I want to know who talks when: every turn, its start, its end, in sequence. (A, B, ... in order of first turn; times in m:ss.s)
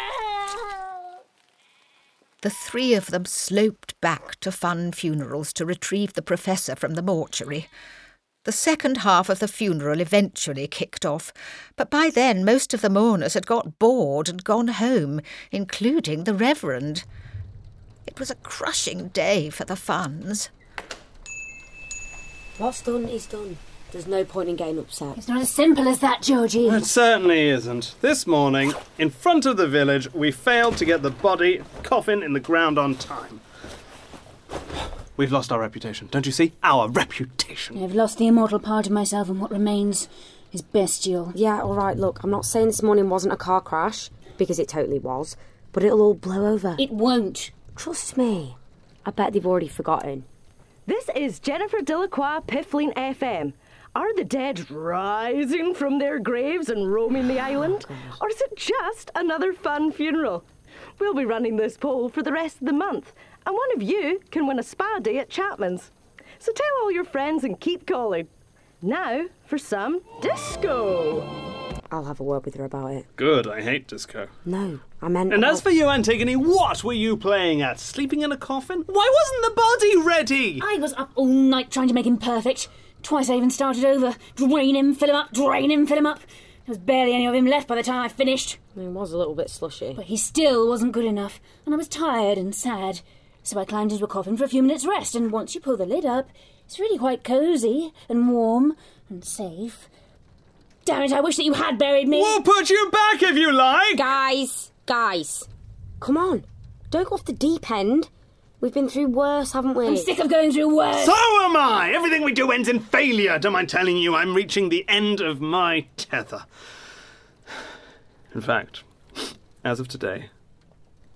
0:02.4-0:07.7 A
0:08.4-0:17.0 A
0:18.1-0:20.5 A
0:22.6-0:25.2 B
0:25.2-0:26.9 C
0:26.6-0:33.4 D
0:35.2-0:37.8 D
0:37.8-0:41.4 C
0:41.3-0:46.8 B
0:46.8-0:47.5 C
0:47.8-0:50.3 B
0:50.9-1:00.5 E
0:57.6-0:58.2 B
1:01.0-1:08.3 E
1:08.8-1:11.3 E
1:11.9-1:13.1 B
1:13.2-1:14.3 D
1:14.4-1:15.7 B
1:15.3-1:20.6 D
1:20.6-1:28.6 C
1:28.8-1:30.0 B
1:30.0-1:39.9 C
1:40.8-1:42.4 C
1:42.1-1:44.2 D
1:43.9-1:45.5 B
1:46.0-1:50.1 B
1:49.8-1:51.2 C
1:50.9-1:56.4 D
1:58.3-2:00.3 D